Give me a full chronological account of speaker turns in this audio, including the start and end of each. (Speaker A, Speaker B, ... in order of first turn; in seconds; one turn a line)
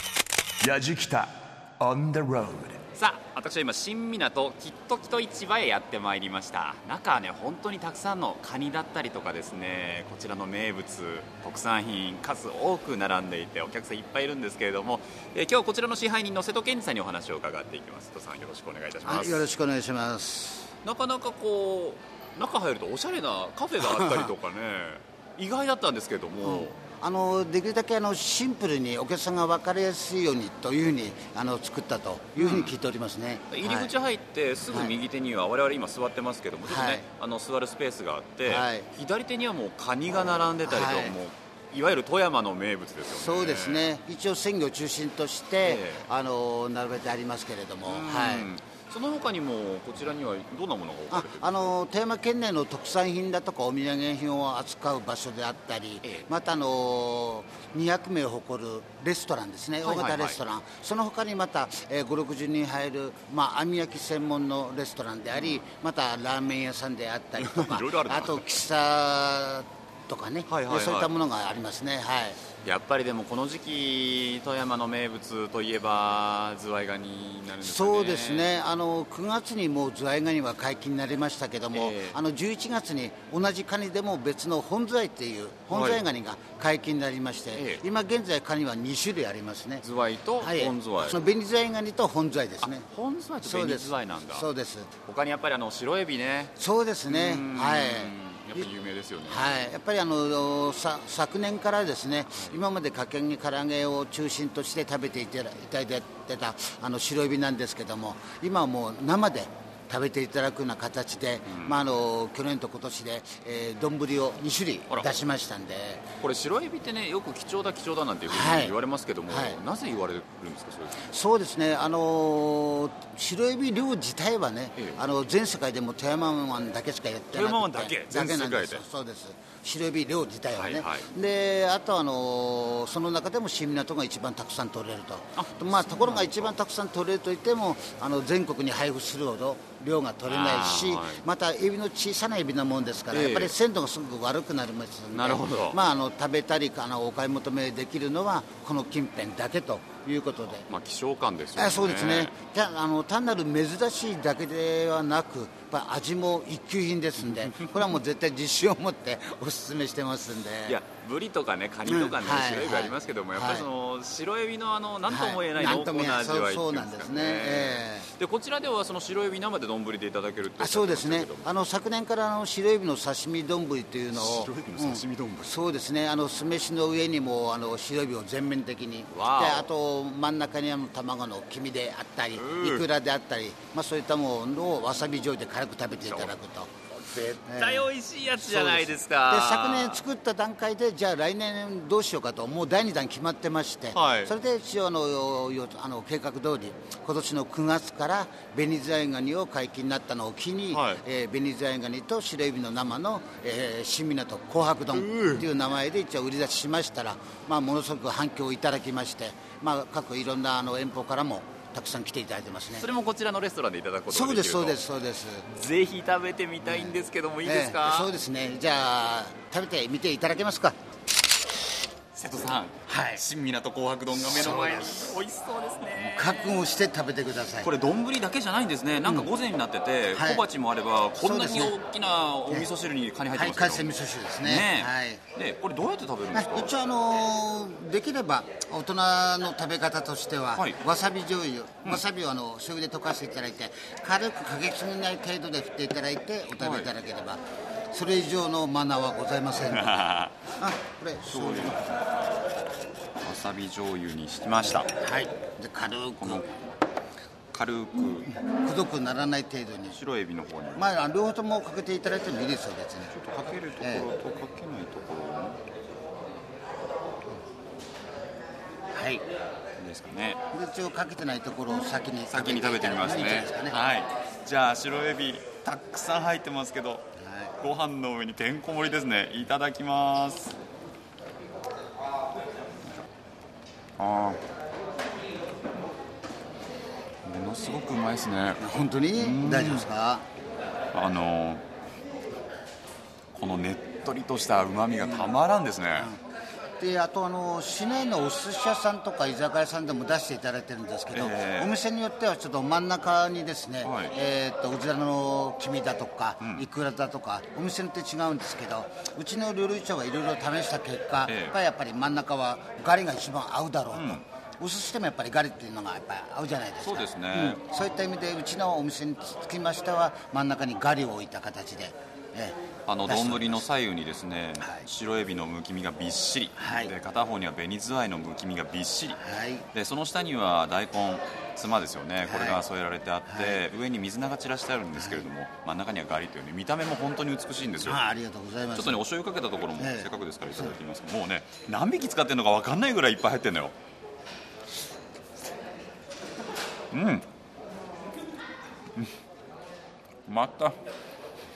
Speaker A: 0.6-2.8
Speaker B: 2.9-19.5
Speaker C: 19.0-20.7
Speaker B: 20.8-26.8
Speaker C: 23.8-24.3
Speaker C: 26.4-33.9
Speaker B: 32.4-32.8
Speaker B: 33.5-43.9
Speaker C: 36.6-37.0
Speaker C: 38.4-38.9
Speaker C: 40.6-41.1
Speaker C: 43.1-48.5
Speaker B: 45.6-46.0
Speaker B: 47.8-51.8
Speaker C: 51.1-72.4
Speaker B: 59.8-60.4
Speaker B: 65.3-65.7
Speaker B: 67.4-68.6
Speaker B: 70.5-71.1
Speaker B: 72.6-78.5
Speaker C: 77.6-89.8
Speaker B: 81.7-82.2
Speaker B: 85.7-86.0
Speaker B: 87.5-87.8
Speaker B: 89.8-91.2
Speaker C: 90.4-92.9
Speaker B: 92.6-94.5
Speaker C: 93.4-94.9
Speaker B: 95.0-96.5
Speaker C: 96.5-98.7
Speaker B: 97.1-99.7
Speaker C: 99.3-116.0
Speaker B: 102.3-102.6
Speaker B: 111.4-111.8
Speaker B: 116.2-121.1
Speaker C: 118.3-118.8
Speaker C: 119.3-119.6
Speaker C: 121.0-150.7
Speaker B: 124.8-125.0
Speaker B: 127.3-128.8
Speaker B: 130.5-131.1
Speaker B: 135.3-136.6
Speaker B: 140.2-141.2
Speaker B: 143.1-143.5
Speaker B: 145.1-145.8
Speaker B: 150.7-152.3
Speaker C: 151.6-160.8
Speaker B: 157.2-157.9
Speaker B: 160.7-171.5
Speaker C: 161.8-163.7
Speaker C: 165.1-168.1
Speaker C: 170.6-212.9
Speaker B: 174.1-175.5
Speaker B: 179.1-179.7
Speaker B: 182.3-182.9
Speaker B: 185.9-186.3
Speaker B: 187.1-190.0
Speaker B: 193.9-194.3
Speaker B: 200.7-201.0
Speaker B: 204.9-205.5
Speaker B: 212.7-214.8
Speaker C: 214.1-215.5
Speaker B: 215.5-218.1
Speaker C: 216.6-220.8
Speaker B: 222.1-226.6
Speaker C: 222.9-223.2
Speaker C: 224.1-225.2
Speaker C: 225.9-227.7
Speaker B: 227.6-236.7
Speaker C: 229.0-229.3
Speaker C: 230.1-230.4
Speaker C: 231.2-231.8
Speaker C: 233.3-235.2
Speaker C: 236.3-251.9
Speaker B: 240.5-240.8
Speaker B: 246.6-246.9
Speaker B: 249.7-250.4
Speaker B: 251.2-251.8
Speaker B: 253.2-254.9
Speaker C: 254.6-256.5
Speaker B: 256.2-256.5
Speaker B: 257.5-258.3
Speaker C: 258.2-260.0
Speaker B: 259.9-260.9
Speaker C: 260.7-263.1
Speaker B: 263.1-265.6
Speaker C: 263.8-264.1
Speaker C: 268.9-269.2
Speaker B: 269.8-270.4
Speaker C: 270.5-273.8
Speaker B: 272.3-280.5
Speaker C: 277.2-277.6
Speaker B: 284.0-284.4
Speaker B: 287.2-289.9
Speaker C: 288.6-290.3
Speaker B: 290.9-291.6
Speaker B: 293.3-296.1
Speaker C: 295.0-295.3
Speaker C: 296.8-323.6
Speaker B: 301.1-301.7
Speaker B: 303.8-304.1
Speaker B: 306.4-306.7
Speaker B: 311.2-311.6
Speaker B: 313.9-314.2
Speaker B: 316.8-317.6
Speaker B: 322.9-329.2
Speaker C: 324.6-324.9
Speaker C: 326.5-326.9
Speaker C: 329.2-329.6
Speaker B: 329.7-338.0
Speaker C: 332.2-332.6
Speaker C: 333.2-333.6
Speaker C: 334.9-335.3
Speaker C: 337.8-339.0
Speaker B: 338.7-343.7
Speaker C: 339.8-340.8
Speaker B: 346.9-347.2
Speaker B: 350.3-350.8